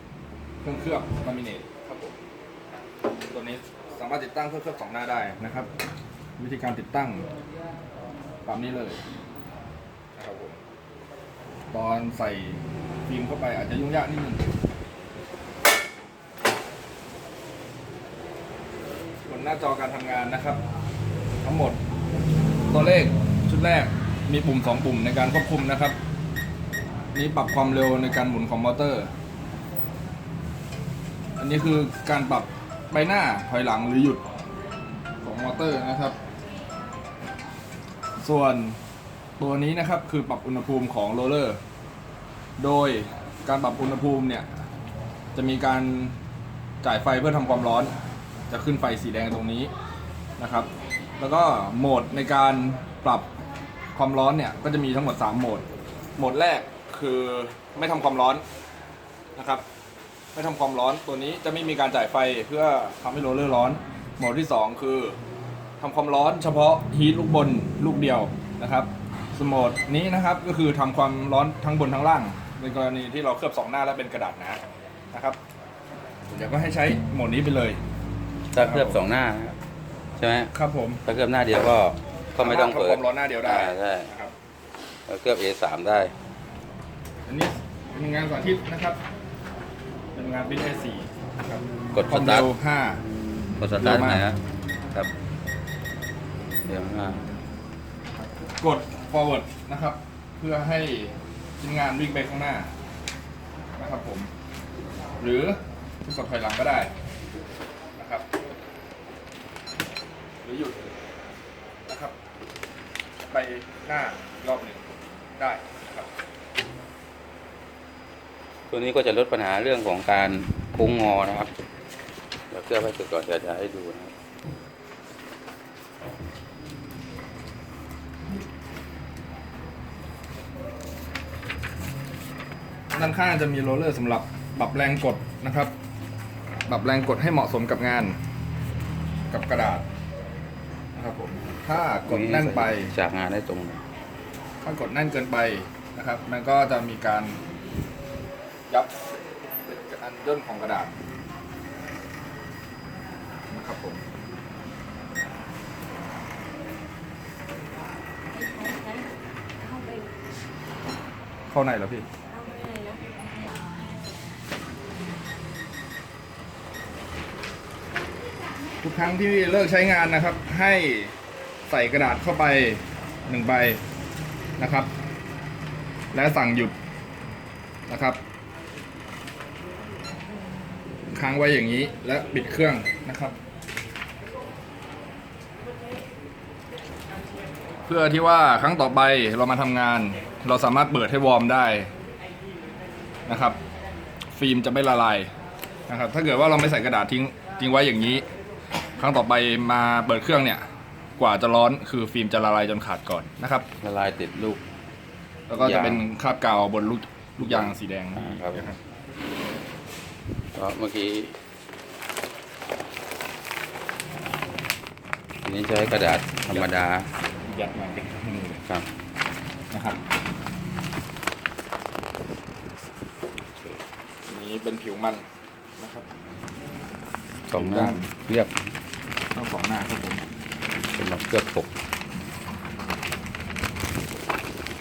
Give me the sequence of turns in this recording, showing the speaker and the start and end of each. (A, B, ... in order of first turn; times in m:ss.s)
0:00.6-0:02.2 A
0:03.3-0:05.7 A
0:06.4-0:07.3 A
0:08.5-0:09.0 A
0:10.2-0:10.6 A
0:11.7-0:14.4 A
0:19.3-0:20.6 A
0:21.4-0:21.8 A
0:22.7-0:26.0 A
0:27.1-0:29.1 A
0:31.4-0:34.2 A
0:35.2-0:36.2 A
0:38.2-0:38.8 A
0:39.4-0:41.6 A
0:42.6-0:44.5 A
0:45.4-0:46.2 A
0:46.8-0:47.9 A
0:48.5-0:49.7 A
0:50.4-0:50.7 A
0:51.2-0:53.3 A
0:54.0-0:55.6 A
0:56.2-0:58.4 A
0:59.4-0:59.6 A
1:00.3-1:05.2 A
1:05.8-1:14.6 A
1:15.1-1:15.4 A
1:16.3-1:17.8 A
1:18.5-1:19.6 B
1:18.6-1:19.0 A
1:20.2-1:20.5 B
1:20.5-1:21.0 A
1:21.1-1:24.1 B
1:22.4-1:24.3 A
1:25.1-1:26.1 B
1:27.3-1:29.0 A
1:30.2-1:33.0 A
1:31.9-1:32.5 B
1:33.6-1:34.4 B
1:33.8-1:34.3 A
1:36.7-1:37.2 B
1:38.2-1:42.7 A
1:43.8-1:44.3 A
1:45.2-1:46.9 A
1:48.0-1:48.3 A
1:50.4-1:51.0 A
1:51.9-1:52.2 A
1:53.2-1:54.9 A
1:55.4-1:56.1 A
1:58.7-2:01.5 B
2:02.5-2:04.1 B
2:12.9-2:15.7 A
2:16.7-2:18.2 A
2:19.3-2:19.8 A
2:21.0-2:22.9 A
2:21.7-2:23.8 B
2:24.6-2:27.4 A
2:28.7-2:31.0 A
2:33.5-2:34.0 A
2:38.3-2:40.1 C
2:41.5-2:42.1 A
2:42.3-2:43.6 C
2:48.8-2:51.1 A
2:51.7-2:53.8 A
2:54.6-2:54.9 A
2:56.1-2:56.7 A
2:57.9-2:58.2 A
3:01.1-3:03.4 A
3:07.9-3:11.9 A
3:13.3-3:13.6 A
3:14.4-3:15.3 A
3:15.9-3:18.2 A
3:19.0-3:20.6 A
3:21.2-3:23.7 A
3:23.8-3:24.6 B
3:25.5-3:28.8 A
3:25.6-3:26.0 B
3:27.4-3:28.7 B
3:30.6-3:31.4 B
3:35.4-3:37.1 B
3:37.4-3:38.6 A
3:39.7-3:40.0 A
3:43.5-3:43.8 B
3:44.3-3:45.2 A
3:45.8-3:46.1 A
3:47.5-3:48.7 B
3:47.5-3:48.1 A
3:49.3-3:50.2 A
3:50.9-3:51.7 B